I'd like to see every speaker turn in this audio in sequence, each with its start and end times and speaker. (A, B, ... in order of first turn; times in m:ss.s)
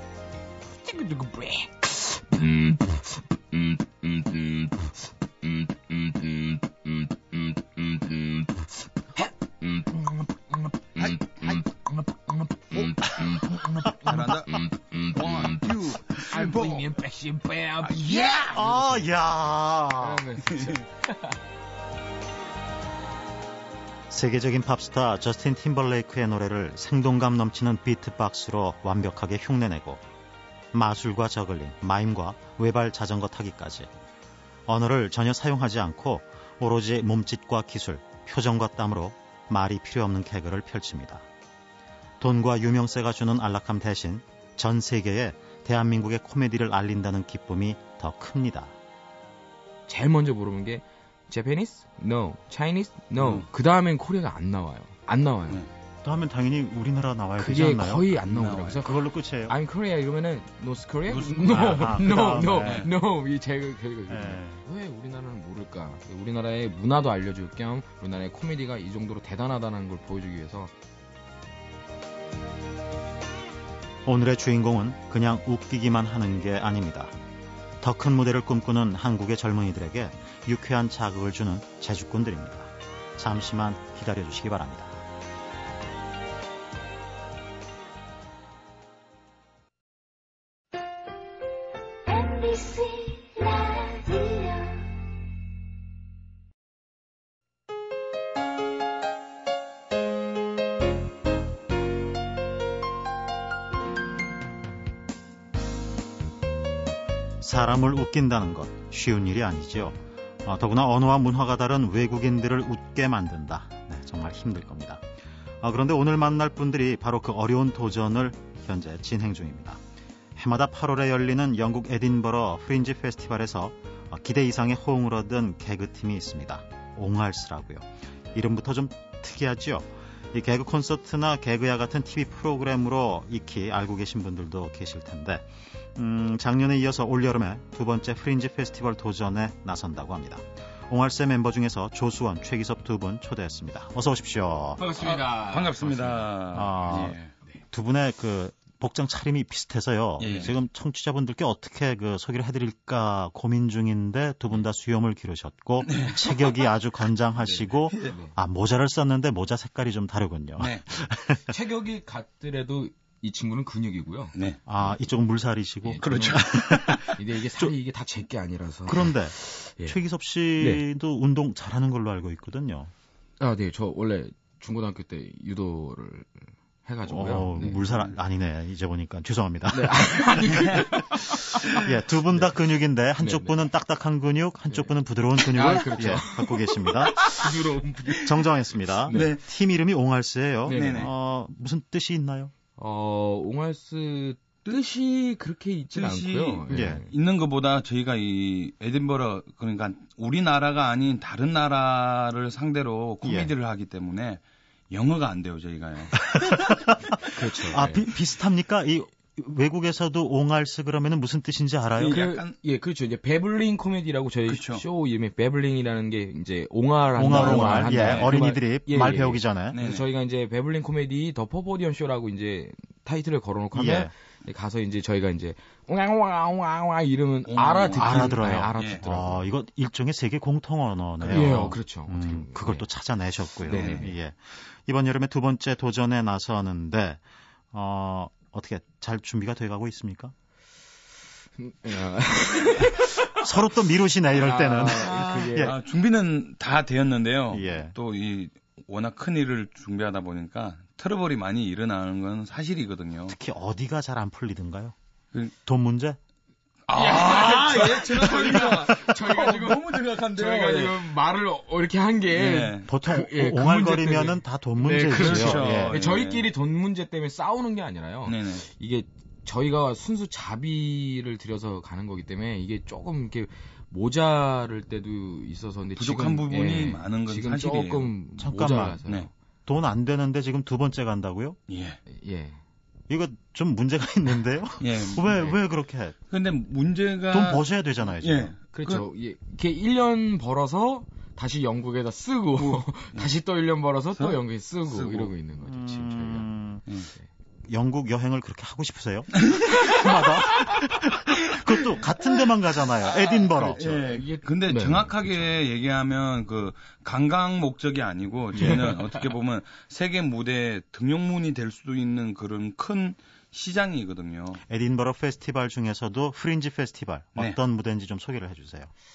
0:00.7-0:04.9 A
0:05.8-0:06.9 A
0:07.8-0:08.6 A
0:09.2-0:15.6 A
0:11.0-0:11.6 B
0:12.7-0:16.9 B
0:16.2-0:18.6 A
0:17.8-0:19.0 B
0:18.4-0:20.3 C
0:20.0-0:21.4 A
0:20.4-0:20.8 B
0:24.1-0:30.0 C
0:30.7-0:33.9 C
0:34.6-0:41.2 C
0:42.2-0:48.7 C
0:49.9-0:55.6 A
0:53.2-0:53.4 B
0:56.0-0:59.5 C
0:57.4-1:10.7 A
0:58.3-0:58.8 B
1:01.1-1:01.7 B
1:01.4-1:02.9 C
1:02.6-1:02.9 B
1:04.1-1:04.6 C
1:14.0-1:17.1 C
1:17.8-1:25.0 C
1:32.0-1:34.9 D
1:47.4-1:55.0 C
1:55.6-1:59.8 C
2:00.4-2:24.8 C
2:24.8-2:26.3 A
2:25.0-2:27.3 B
2:26.5-2:27.2 C
2:27.7-2:41.6 C
2:30.2-2:30.5 B
2:35.8-2:36.6 B
2:37.4-2:38.1 B
2:38.0-2:38.3 A
2:40.6-2:40.9 B
2:41.4-2:44.9 A
2:44.6-2:47.7 C
2:45.8-2:46.4 A
2:46.0-2:47.2 B
2:47.1-2:50.0 A
2:48.9-2:52.9 C
2:50.6-2:50.8 A
2:53.4-2:58.1 A
2:57.0-3:00.8 C
2:59.7-3:02.5 A
3:01.8-3:07.5 C
3:03.2-3:03.5 A
3:04.7-3:08.3 A
3:08.1-3:12.5 C
3:09.1-3:09.4 B
3:10.6-3:11.1 A
3:10.7-3:11.1 B
3:12.8-3:17.1 A
3:15.9-3:26.5 B
3:16.7-3:17.0 C
3:23.2-3:23.5 C
3:26.3-3:27.2 C
3:27.3-3:28.1 A
3:27.7-3:32.2 C
3:32.0-3:32.5 B
3:32.0-3:49.4 A
3:34.5-3:34.8 B
3:37.2-3:39.8 C
3:37.3-3:38.4 B
3:39.7-3:40.0 B
3:43.7-3:44.1 C
3:47.4-3:49.0 B
3:48.0-3:57.2 C
3:51.2-3:51.7 B
3:51.3-3:52.9 A
3:53.6-3:54.2 A
3:53.7-3:54.0 B
3:57.7-4:00.3 C
4:01.6-4:03.4 A
4:03.4-4:05.7 C
4:04.3-4:05.7 A
4:04.9-4:13.4 B
4:07.5-4:07.9 C
4:13.3-4:14.9 C
4:15.6-4:16.2 C
4:16.9-4:21.0 B
4:16.9-4:39.3 A
4:22.3-4:22.9 B
4:22.9-4:26.0 C
4:25.1-4:26.5 B
4:28.2-4:28.6 B
4:36.0-4:38.1 B
4:38.4-4:39.0 C
4:39.6-4:41.6 C
4:41.7-4:42.0 B
4:42.1-4:42.6 A
4:43.1-4:46.2 C
4:44.8-4:45.5 B
4:46.3-4:49.0 B
4:47.3-4:48.5 C
4:48.7-4:56.5 A
4:52.6-4:53.3 B
4:54.2-4:55.3 B
4:55.6-4:56.8 C
4:57.7-5:03.8 C
4:59.4-5:00.0 B
5:03.1-5:05.4 A
5:03.3-5:14.6 B
5:08.6-5:09.3 A
5:14.7-5:18.9 C